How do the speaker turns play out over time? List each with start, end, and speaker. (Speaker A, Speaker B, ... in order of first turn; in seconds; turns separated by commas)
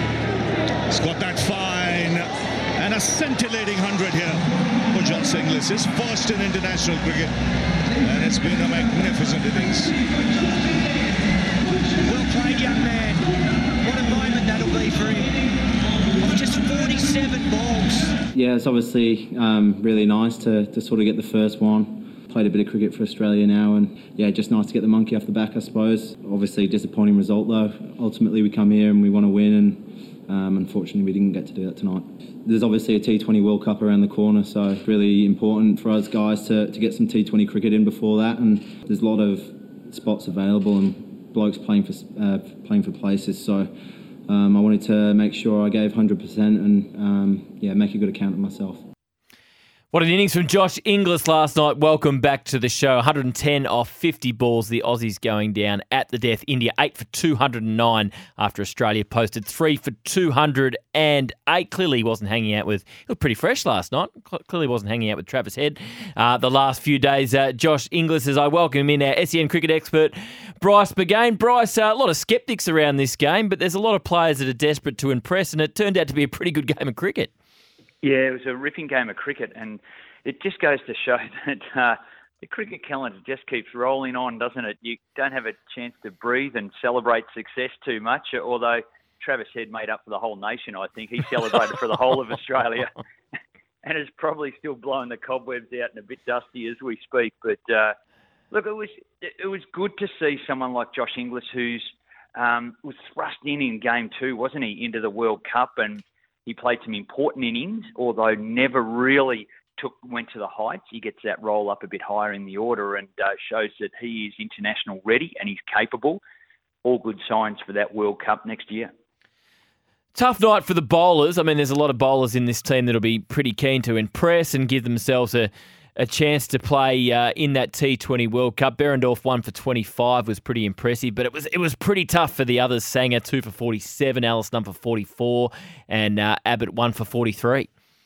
Speaker A: 0.9-7.3, Speaker A: 8.0-9.9, Speaker B: 12.1-13.3, Speaker B: 13.8-15.4, Speaker B: 16.2-18.2, Speaker C: 18.3-48.8, Speaker D: 49.9-77.3, Speaker E: 78.0-93.0, Speaker E: 93.8-98.0, Speaker E: 98.5-116.2, Speaker E: 116.8-118.9, Speaker D: 120.2-137.7